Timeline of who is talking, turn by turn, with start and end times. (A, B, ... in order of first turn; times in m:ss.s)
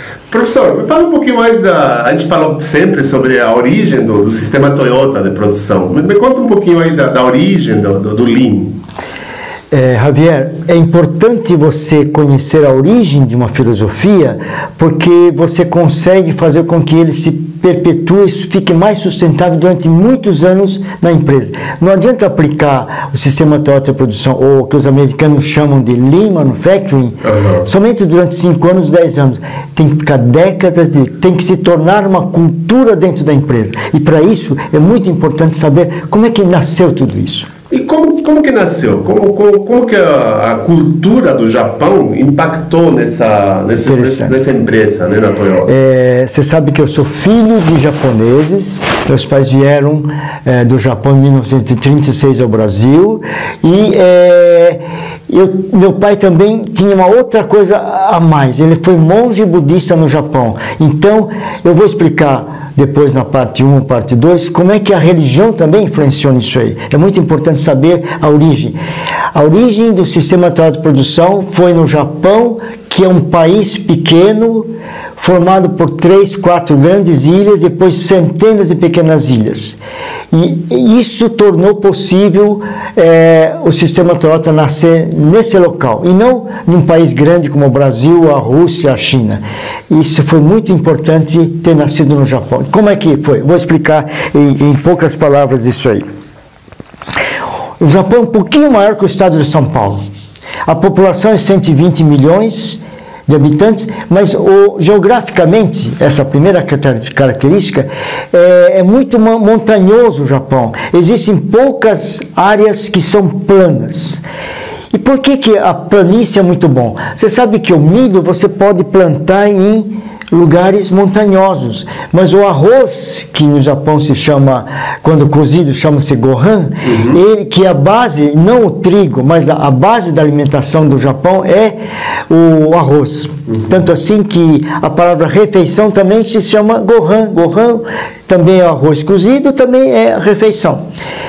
0:00.3-0:08.8 A
0:09.7-0:37.5 B
0:27.2-0:27.6 A
0:37.7-0:45.7 A
0:43.8-0:44.4 B
0:45.6-1:08.8 B
1:09.3-1:19.8 B
1:20.3-1:36.1 B
1:37.8-1:40.0 B
1:40.7-1:54.2 B
1:54.9-2:11.8 B
2:06.8-2:07.2 A
2:12.3-2:20.8 B